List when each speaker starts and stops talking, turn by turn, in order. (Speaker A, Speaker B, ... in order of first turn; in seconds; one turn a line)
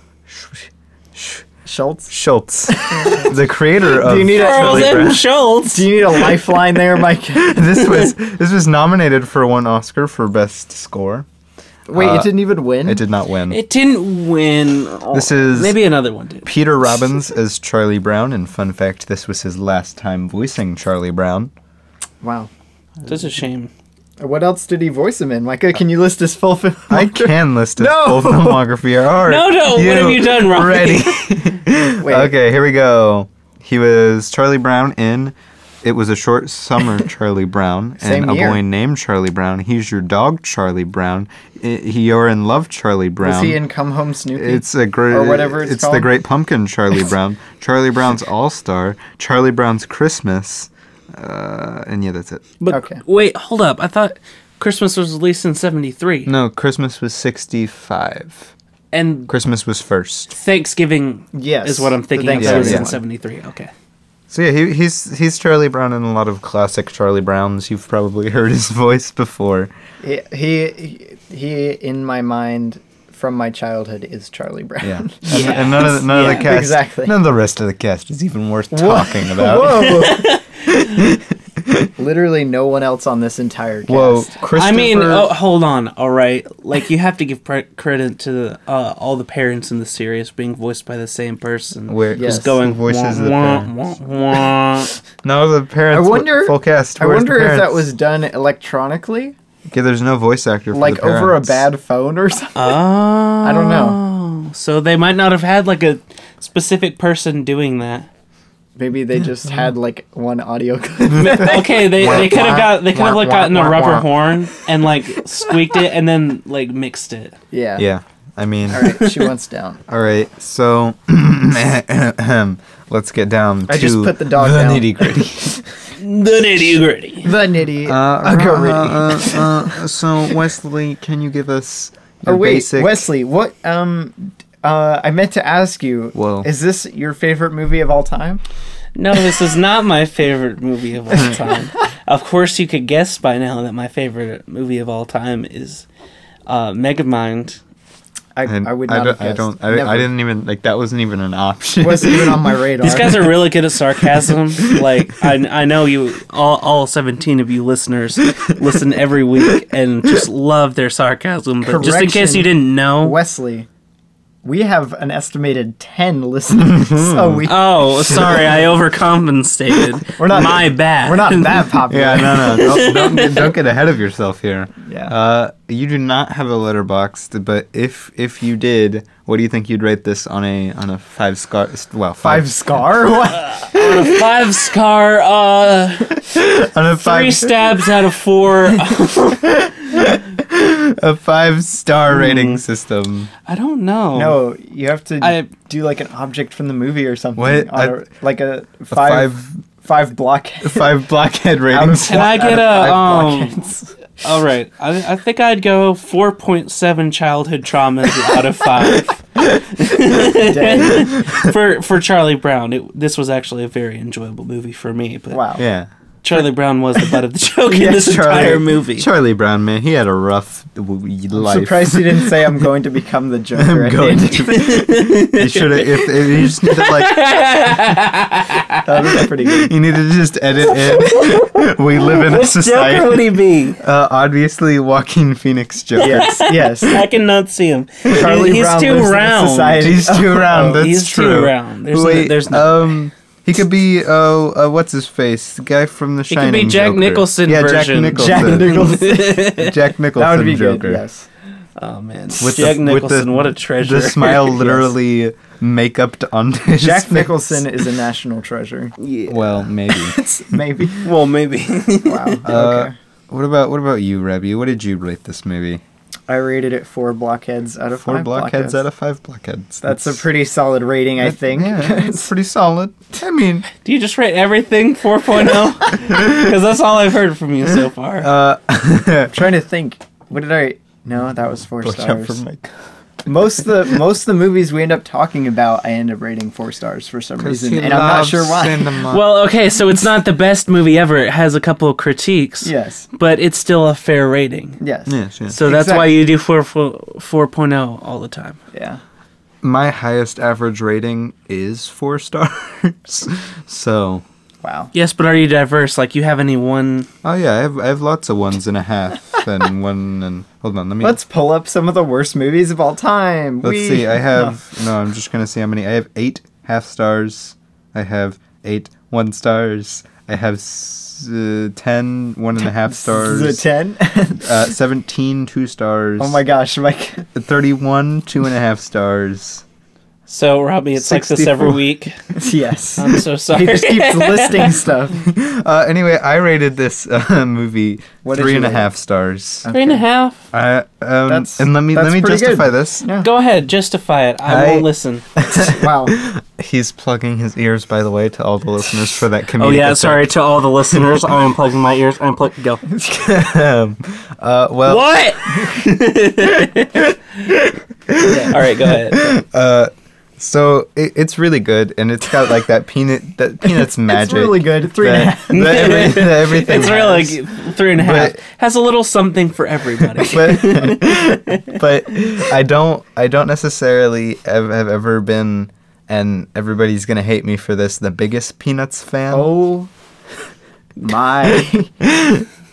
Speaker A: 0.3-1.4
Speaker B: 1.6-2.1
Speaker A: 2.1-5.2
Speaker B: 2.7-3.3
Speaker B: 3.9-5.2
Speaker C: 4.2-6.3
Speaker B: 5.7-7.8
Speaker A: 7.3-11.2
Speaker B: 11.9-13.0
Speaker A: 11.9-13.6
Speaker C: 13.5-16.5
Speaker A: 15.1-15.8
Speaker A: 16.4-21.5
Speaker B: 22.2-22.5
Speaker C: 23.1-23.7
Speaker B: 24.2-28.7
Speaker A: 26.9-43.6
Speaker C: 29.2-31.1
Speaker B: 32.0-32.3
Speaker B: 38.0-38.6
Speaker B: 43.2-46.1
Speaker A: 44.4-52.5
Speaker C: 52.6-56.3
Speaker B: 52.7-53.0
Speaker A: 56.2-58.5
Speaker C: 58.9-59.3
Speaker A: 59.3-60.3
Speaker C: 60.3-63.7
Speaker B: 61.3-63.0
Speaker A: 62.3-62.9
Speaker A: 64.3-69.7
Speaker B: 70.0-77.1
Speaker A: 74.8-80.0
Speaker C: 75.2-76.5
Speaker B: 78.7-80.4
Speaker C: 79.9-80.4
Speaker A: 80.7-81.9
Speaker B: 82.0-84.3
Speaker A: 83.9-85.3
Speaker C: 84.5-94.9
Speaker A: 91.9-93.7
Speaker B: 92.2-92.5
Speaker A: 95.2-97.9
Speaker B: 95.9-99.3
Speaker A: 99.7-101.6
Speaker B: 100.7-102.8
Speaker C: 102.5-108.1
Speaker B: 103.4-104.0
Speaker B: 108.8-112.7
Speaker C: 111.1-117.3
Speaker A: 112.0-114.1
Speaker B: 117.5-117.8
Speaker A: 117.8-118.9
Speaker B: 118.7-119.8
Speaker C: 118.8-119.2
Speaker A: 119.9-125.6
Speaker B: 123.7-125.1
Speaker C: 126.0-127.3
Speaker B: 127.2-129.8
Speaker A: 127.8-133.1
Speaker B: 132.2-138.4
Speaker A: 136.1-136.5
Speaker C: 138.9-145.8
Speaker C: 146.5-147.6
Speaker B: 148.3-150.1
Speaker A: 148.4-152.5
Speaker B: 151.8-153.3
Speaker C: 152.8-163.2
Speaker A: 154.6-155.0
Speaker B: 161.6-163.7
Speaker B: 164.4-167.8
Speaker A: 166.6-167.4
Speaker C: 167.4-171.7
Speaker A: 168.0-168.7
Speaker A: 169.7-170.0
Speaker B: 170.2-172.6
Speaker A: 171.9-182.5
Speaker C: 172.5-173.5
Speaker B: 174.8-175.1
Speaker B: 182.2-183.7
Speaker C: 183.3-186.3
Speaker A: 186.3-187.8
Speaker C: 187.0-189.6
Speaker A: 189.4-193.3
Speaker C: 192.1-192.6
Speaker C: 193.4-194.4
Speaker B: 194.1-200.9
Speaker C: 195.2-195.5
Speaker A: 197.4-198.0
Speaker A: 198.9-199.6
Speaker A: 200.6-203.3
Speaker B: 201.7-203.9
Speaker C: 202.0-203.6
Speaker C: 204.2-215.4
Speaker B: 210.2-211.1
Speaker A: 211.2-211.5
Speaker B: 215.3-215.6
Speaker A: 215.6-215.9
Speaker C: 216.2-219.1
Speaker B: 217.7-218.6
Speaker A: 218.2-222.6
Speaker B: 221.3-224.7
Speaker A: 223.6-227.2
Speaker C: 224.6-228.8
Speaker B: 228.8-229.7
Speaker A: 229.4-236.3
Speaker C: 230.8-233.8
Speaker B: 236.0-237.0
Speaker C: 236.0-239.9
Speaker B: 238.1-240.8
Speaker A: 239.8-251.0
Speaker C: 240.5-242.8
Speaker C: 246.3-249.8
Speaker B: 248.1-249.5
Speaker B: 250.2-251.3
Speaker C: 251.8-254.6
Speaker A: 252.4-257.6
Speaker B: 254.6-254.9
Speaker B: 256.8-258.9
Speaker C: 259.0-259.6
Speaker A: 259.3-260.1
Speaker B: 259.9-261.1
Speaker C: 261.0-262.4
Speaker B: 262.0-262.9
Speaker A: 262.4-265.8
Speaker B: 266.3-268.8
Speaker A: 268.0-270.2
Speaker B: 269.8-272.3
Speaker A: 271.2-273.7
Speaker C: 273.8-278.3
Speaker A: 278.2-279.3
Speaker B: 279.3-282.4
Speaker A: 281.8-282.7
Speaker B: 283.2-288.9
Speaker A: 287.4-289.2
Speaker C: 289.1-294.8
Speaker B: 292.6-293.1
Speaker B: 294.8-296.1
Speaker A: 295.1-295.6
Speaker C: 295.5-298.6
Speaker B: 298.7-299.0
Speaker A: 299.6-304.2
Speaker B: 304.6-304.9
Speaker C: 304.9-307.1
Speaker A: 307.2-311.2
Speaker B: 311.0-314.6
Speaker A: 313.6-323.6
Speaker B: 322.8-324.5
Speaker A: 324.4-326.4
Speaker B: 326.2-327.2
Speaker A: 327.3-329.6
Speaker C: 330.3-332.2
Speaker B: 331.1-331.7
Speaker B: 332.3-335.2
Speaker C: 333.0-334.8
Speaker A: 335.1-339.7
Speaker B: 338.2-338.9
Speaker B: 339.6-340.0
Speaker C: 339.7-340.4
Speaker A: 340.5-343.1
Speaker B: 341.3-343.3
Speaker C: 343.2-345.2
Speaker A: 344.4-350.4
Speaker B: 345.5-346.2
Speaker C: 349.6-352.8
Speaker A: 350.9-351.1
Speaker A: 352.9-355.7
Speaker C: 354.9-357.1
Speaker A: 358.1-367.4
Speaker B: 358.2-358.5
Speaker C: 358.5-359.3
Speaker B: 364.0-366.2
Speaker C: 365.5-371.7
Speaker A: 367.9-368.4
Speaker A: 370.2-379.5
Speaker B: 379.3-379.9
Speaker B: 381.0-382.0